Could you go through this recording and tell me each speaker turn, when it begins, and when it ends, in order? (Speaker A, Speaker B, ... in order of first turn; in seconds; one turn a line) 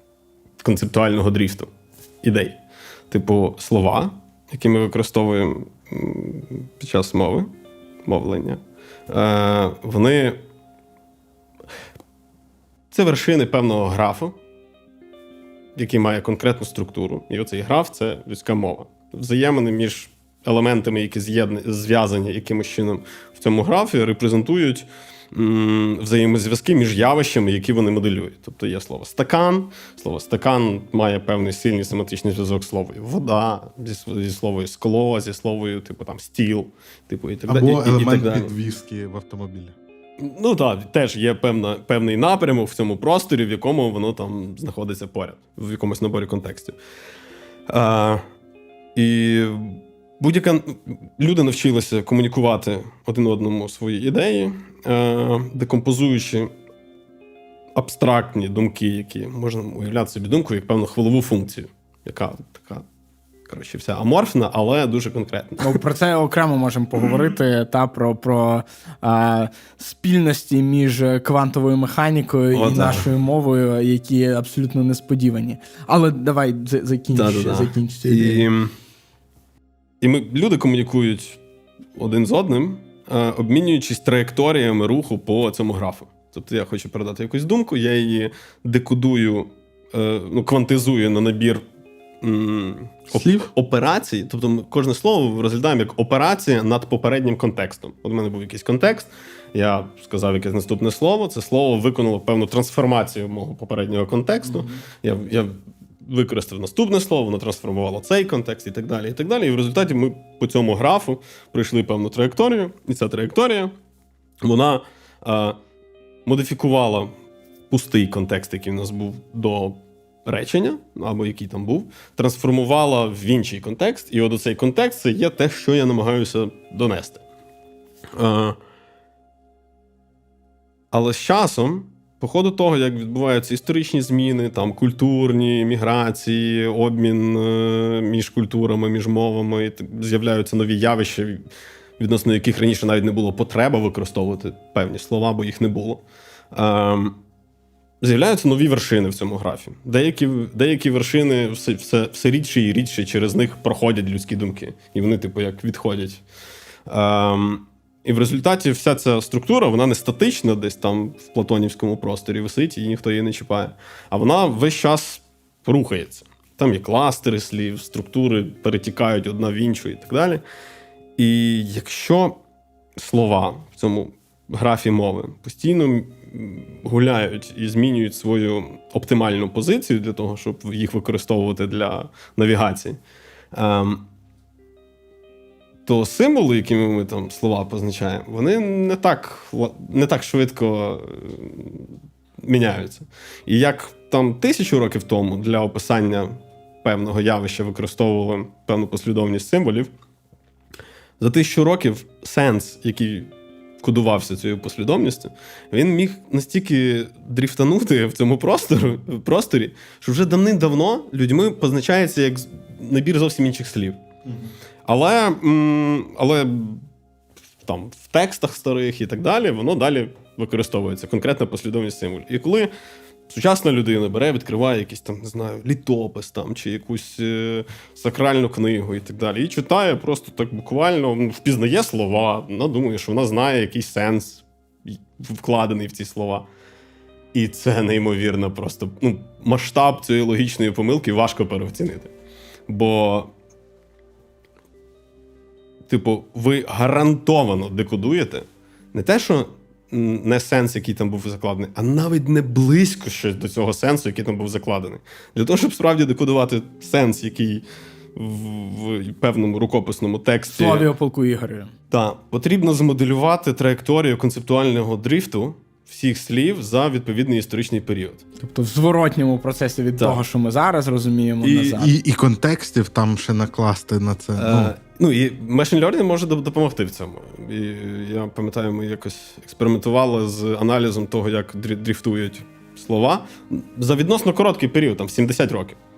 Speaker A: 0.6-1.7
Speaker A: 2.2-2.6
Speaker A: 3.1-7.5
Speaker A: 8.1-10.4
Speaker A: 12.9-14.3
Speaker A: 15.8-38.5
Speaker B: 37.5-39.7
Speaker A: 40.2-46.7
Speaker A: 47.7-48.2
Speaker A: 48.9-56.5
Speaker A: 57.7-62.8
Speaker A: 63.5-65.8
Speaker C: 65.6-78.5
Speaker A: 72.5-73.1
Speaker A: 77.1-78.7
Speaker A: 80.0-81.4
Speaker A: 82.0-91.6
Speaker A: 92.2-113.7
Speaker B: 93.2-93.5
Speaker A: 114.4-115.6
Speaker A: 116.2-117.1
Speaker A: 117.7-127.2
Speaker A: 128.2-128.6
Speaker A: 130.9-141.4
Speaker A: 142.0-147.2
Speaker A: 148.0-156.2
Speaker A: 156.9-170.4
Speaker A: 171.2-172.4
Speaker A: 172.9-183.0
Speaker A: 183.5-184.1
Speaker A: 185.8-191.9
Speaker A: 192.4-199.9
Speaker A: 201.2-214.0
Speaker A: 214.8-216.8
Speaker A: 217.6-222.7
Speaker A: 223.3-236.4
Speaker A: 237.3-242.1
Speaker A: 242.7-243.3
Speaker A: 245.9-260.9
Speaker C: 260.5-261.7
Speaker A: 261.9-268.2
Speaker C: 268.4-271.9
Speaker A: 270.0-270.2
Speaker A: 271.4-271.8
Speaker B: 271.8-274.7
Speaker A: 274.4-285.8